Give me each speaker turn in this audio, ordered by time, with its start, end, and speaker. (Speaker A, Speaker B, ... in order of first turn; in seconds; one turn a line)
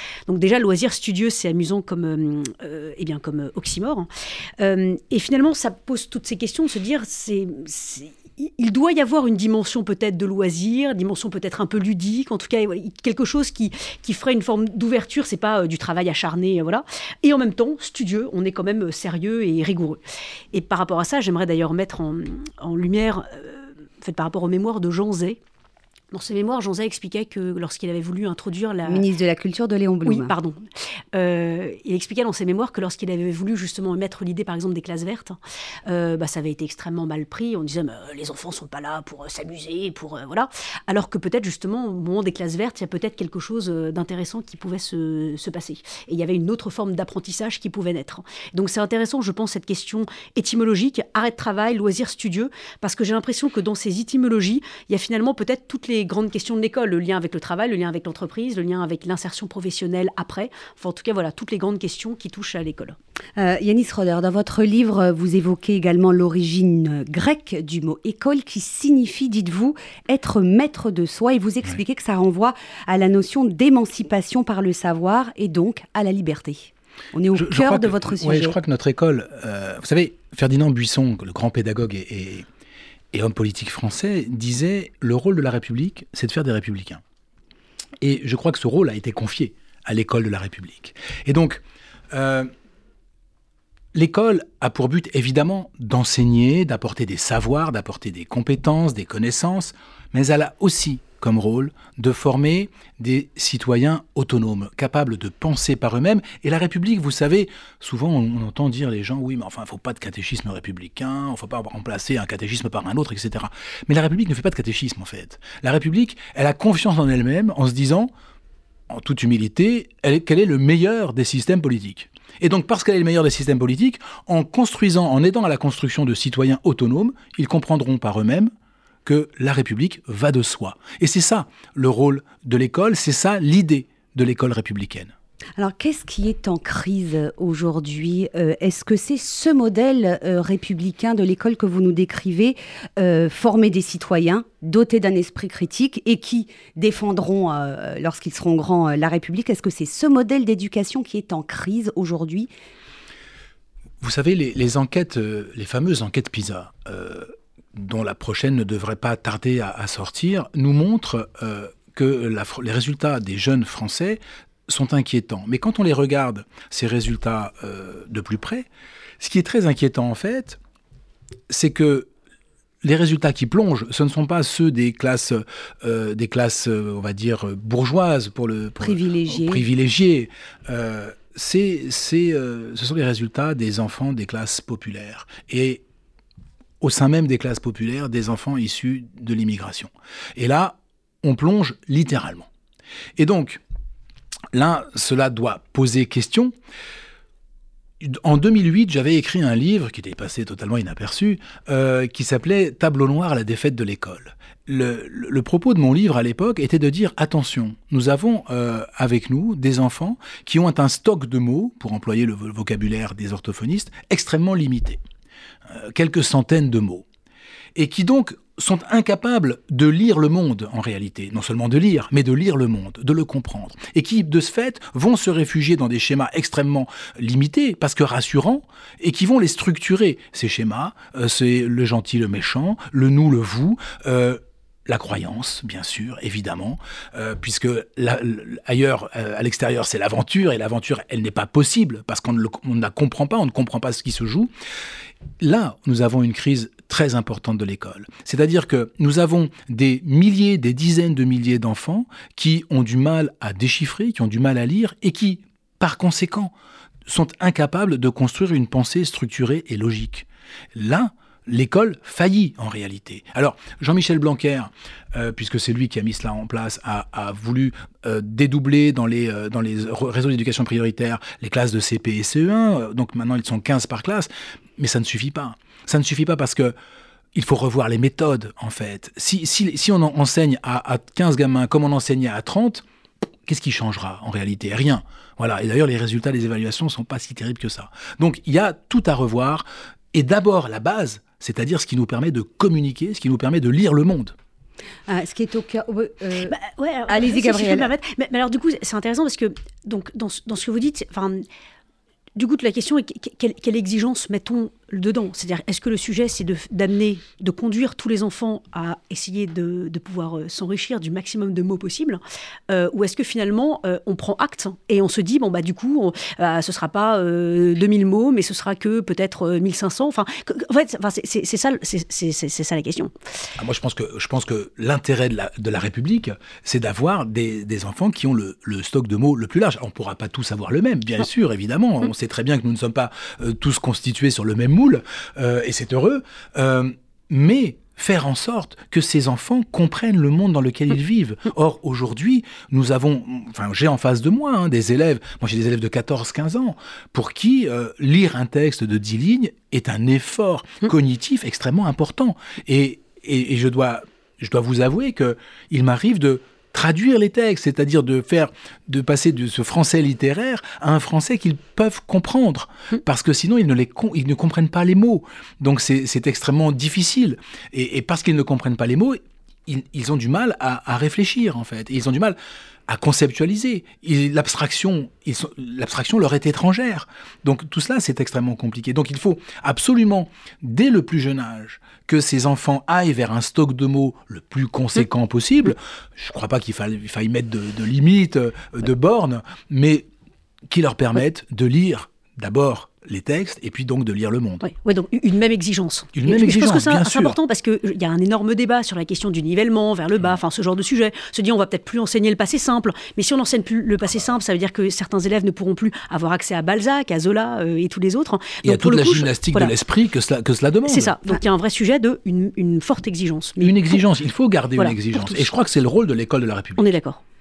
Speaker A: 0.3-20.0
Speaker A: 20.5-25.4
Speaker A: 26.1-29.1
Speaker B: 28.9-30.3
Speaker A: 30.0-63.0
Speaker B: 63.4-78.5
Speaker C: 77.3-82.5
Speaker C: 83.1-87.0
Speaker C: 88.0-92.5
Speaker C: 93.9-118.1
Speaker C: 118.9-128.5
Speaker C: 129.1-135.1
Speaker B: 135.6-152.5
Speaker C: 154.0-168.7
Speaker C: 169.2-170.6
Speaker C: 171.5-172.1
Speaker C: 172.8-185.8
Speaker B: 178.8-179.6
Speaker C: 186.8-192.5
Speaker C: 193.2-193.6
Speaker C: 194.5-196.5
Speaker C: 198.0-215.0
Speaker C: 215.7-217.0
Speaker C: 217.7-244.5
Speaker C: 245.4-256.5
Speaker C: 257.1-276.7
Speaker C: 277.3-282.8
Speaker C: 283.4-294.3
Speaker B: 295.1-296.6
Speaker A: 296.5-301.4
Speaker B: 297.1-297.9
Speaker A: 302.4-323.1
Speaker C: 323.6-372.4
Speaker C: 372.9-390.1
Speaker C: 390.7-394.6
Speaker A: 394.6-409.7
Speaker C: 396.1-397.4
Speaker C: 408.6-411.1
Speaker A: 410.9-414.0
Speaker C: 413.6-416.9
Speaker A: 414.8-415.4
Speaker A: 416.8-417.2